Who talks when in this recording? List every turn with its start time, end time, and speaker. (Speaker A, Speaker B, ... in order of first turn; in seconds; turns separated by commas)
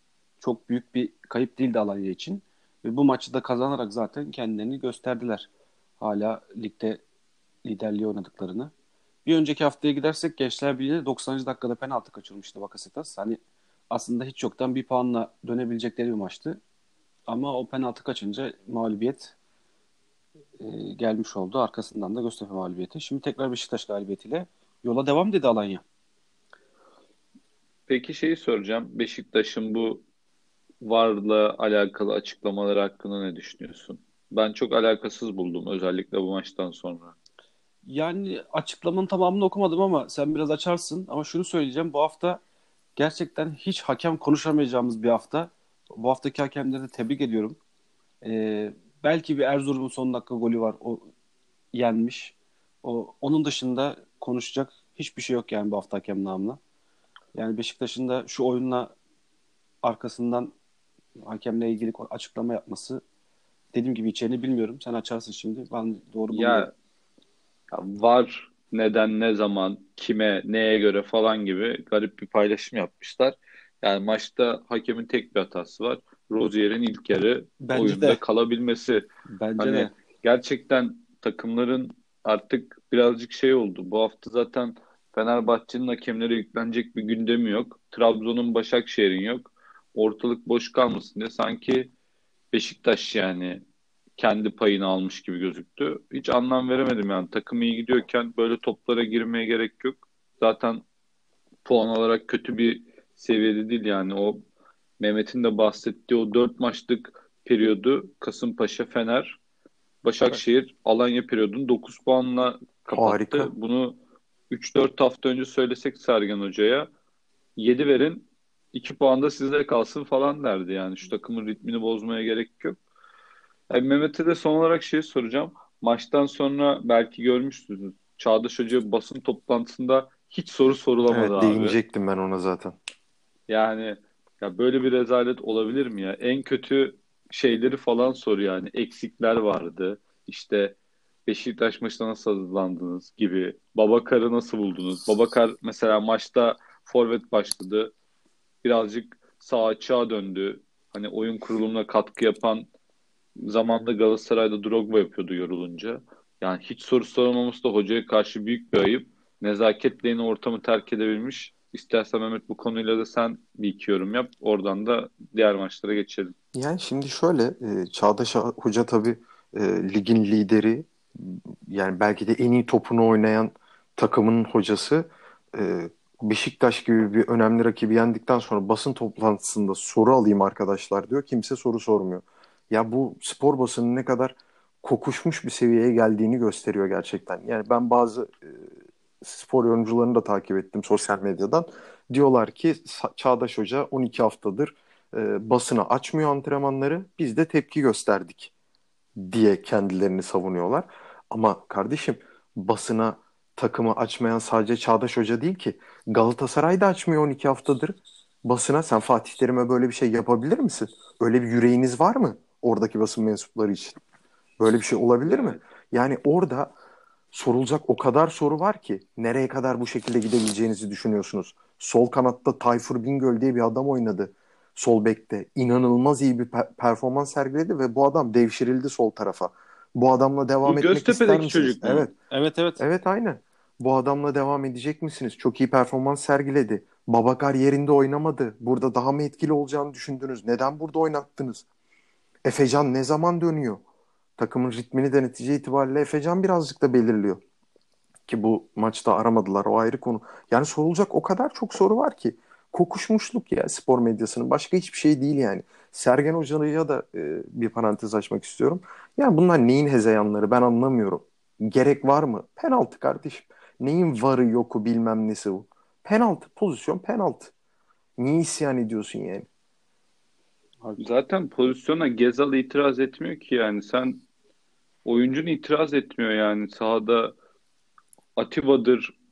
Speaker A: 0.4-5.5, Speaker A: 6.0-7.0, Speaker A: 7.6-8.7, Speaker A: 9.2-13.4, Speaker A: 13.9-16.6, Speaker A: 17.3-19.3, Speaker A: 20.6-25.8, Speaker B: 27.9-30.0, Speaker B: 30.8-37.1, Speaker A: 37.9-42.4, Speaker A: 43.0-47.6, Speaker A: 48.2-51.1, Speaker A: 51.7-56.6, Speaker A: 57.3-58.9, Speaker A: 59.8-60.5, Speaker A: 61.2-63.0, Speaker A: 63.7-66.7, Speaker B: 66.3-66.7, Speaker B: 67.7-79.0, Speaker A: 77.6-78.2, Speaker A: 79.3-79.9, Speaker B: 79.6-91.9, Speaker B: 92.5-93.6, Speaker B: 94.2-100.8, Speaker B: 101.6-104.4, Speaker B: 105.0-109.4, Speaker B: 110.0-114.0, Speaker C: 112.9-113.5, Speaker B: 114.5-116.9, Speaker B: 117.5-122.8, Speaker B: 123.7-131.8, Speaker C: 131.1-132.8, Speaker B: 133.5-147.9, Speaker B: 148.6-152.7, Speaker B: 153.4-166.3, Speaker C: 166.5-198.5, Speaker C: 199.2-214.0, Speaker C: 214.6-216.7, Speaker B: 215.3-215.6, Speaker C: 217.3-232.1, Speaker B: 230.6-232.1, Speaker A: 232.3-232.8, Speaker C: 232.8-241.7, Speaker C: 242.4-243.8, Speaker C: 244.4-247.4, Speaker C: 248.3-267.5, Speaker C: 268.2-269.5, Speaker B: 271.0-274.2, Speaker B: 275.0-277.3, Speaker B: 278.4-279.1